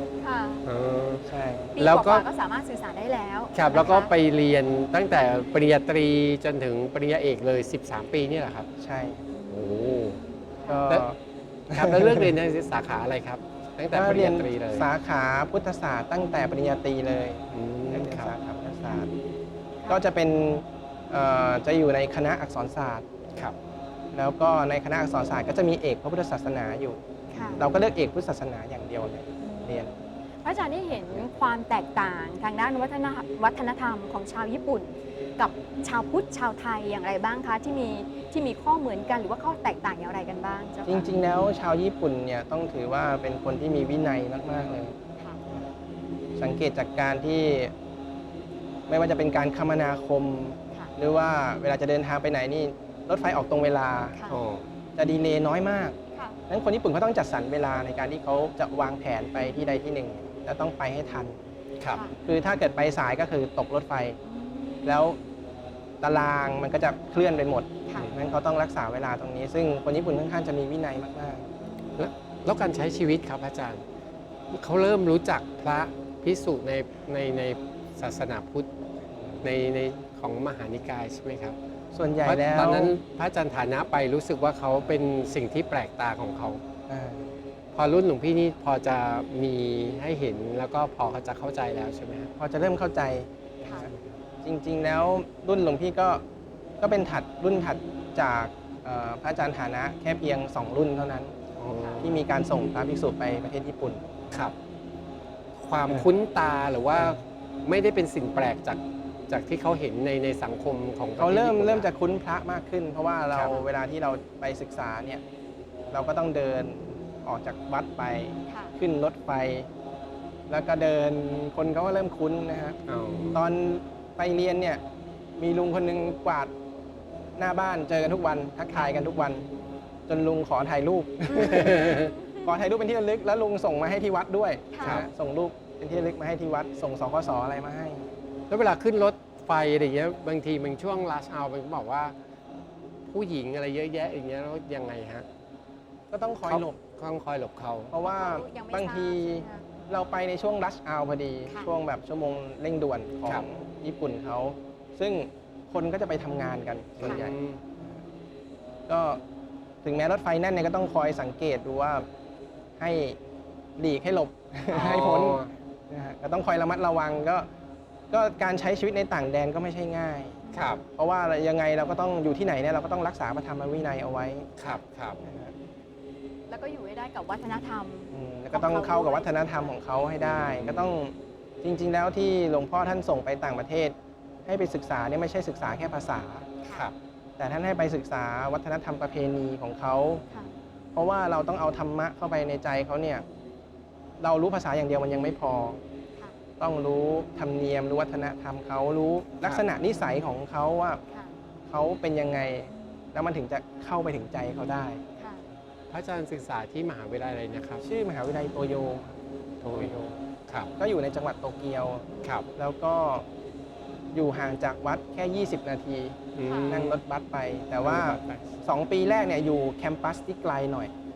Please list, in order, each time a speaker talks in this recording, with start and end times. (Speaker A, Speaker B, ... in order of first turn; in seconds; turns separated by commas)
Speaker A: 0.2-0.7, Speaker B: 0.7-1.3, Speaker C: 1.3-1.8, Speaker A: 1.8-4.1, Speaker B: 1.8-2.2, Speaker B: 3.5-8.7, Speaker C: 8.8-9.3, Speaker B: 9.5-10.2, Speaker A: 10.3-10.9, Speaker C: 10.7-11.2, Speaker C: 11.7-12.3, Speaker B: 11.7-14.9, Speaker C: 13.9-19.1, Speaker B: 17.5-18.3, Speaker C: 19.9-23.5, Speaker C: 24.1-27.0, Speaker A: 27.3-27.6, Speaker B: 27.3-27.7, Speaker C: 27.6-29.9, Speaker A: 29.4-41.1, Speaker C: 40.9-45.0, Speaker C: 46.4-47.7, Speaker C: 48.9-54.2, Speaker A: 54.1-54.4, Speaker B: 54.3-54.6, Speaker C: 55.0-56.0, Speaker C: 56.5-61.4, Speaker A: 61.9-62.2, Speaker C: 62.2-64.2, Speaker A: 64.2-64.9, Speaker C: 64.8-65.2, Speaker C: 66.0-71.5, Speaker A: 71.6-71.9, Speaker B: 72.0-73.8, Speaker B: 74.5-78.7, Speaker C: 79.1-79.5, Speaker B: 79.4-81.6, Speaker C: 81.9-83.0, Speaker B: 82.2-86.6, Speaker C: 86.9-87.3, Speaker B: 87.8-92.3, Speaker C: 92.4-96.2, Speaker C: 96.8-101.3, Speaker B: 101.6-102.2, Speaker A: 101.8-102.1, Speaker C: 102.0-104.2, Speaker B: 105.6-111.9, Speaker C: 107.0-107.2, Speaker C: 111.2-115.2, Speaker C: 115.9-119.7, Speaker A: 118.5-118.8, Speaker C: 120.5-122.8, Speaker B: 122.9-123.4, Speaker C: 123.3-124.8, Speaker C: 125.4-126.5, Speaker C: 127.4-129.5, Speaker C: 130.1-138.1, Speaker A: 131.3-132.4, Speaker B: 131.4-132.2, Speaker A: 134.7-135.0, Speaker B: 138.5-142.2, Speaker B: 143.1-145.3, Speaker C: 146.1-146.8, Speaker B: 146.5-147.9, Speaker C: 147.9-158.0, Speaker A: 148.0-149.7, Speaker B: 157.0-157.6, Speaker C: 158.9-159.2, Speaker C: 159.8-162.1, Speaker C: 162.8-163.2, Speaker C: 163.8-167.5, Speaker B: 164.7-165.5, Speaker C: 168.1-174.6, Speaker A: 170.4-170.8, Speaker B: 170.5-170.8, Speaker B: 174.6-175.2, Speaker C: 175.2-175.5, Speaker A: 176.5-179.8, Speaker C: 178.1-186.5, Speaker B: 180.2-180.9, Speaker A: 186.6-186.9, Speaker C: 187.4-190.3, Speaker C: 190.9-193.2, Speaker C: 194.2-195.8, Speaker C: 196.6-201.0, Speaker C: 201.7-205.0, Speaker A: 205.2-205.4, Speaker B: 205.9-207.8, Speaker C: 207.8-209.2, Speaker B: 209.6-210.7, Speaker C: 209.7-210.2, Speaker C: 210.8-213.3, Speaker C: 214.1-220.9, Speaker B: 216.3-217.0, Speaker A: 216.4-216.8, Speaker B: 217.8-218.5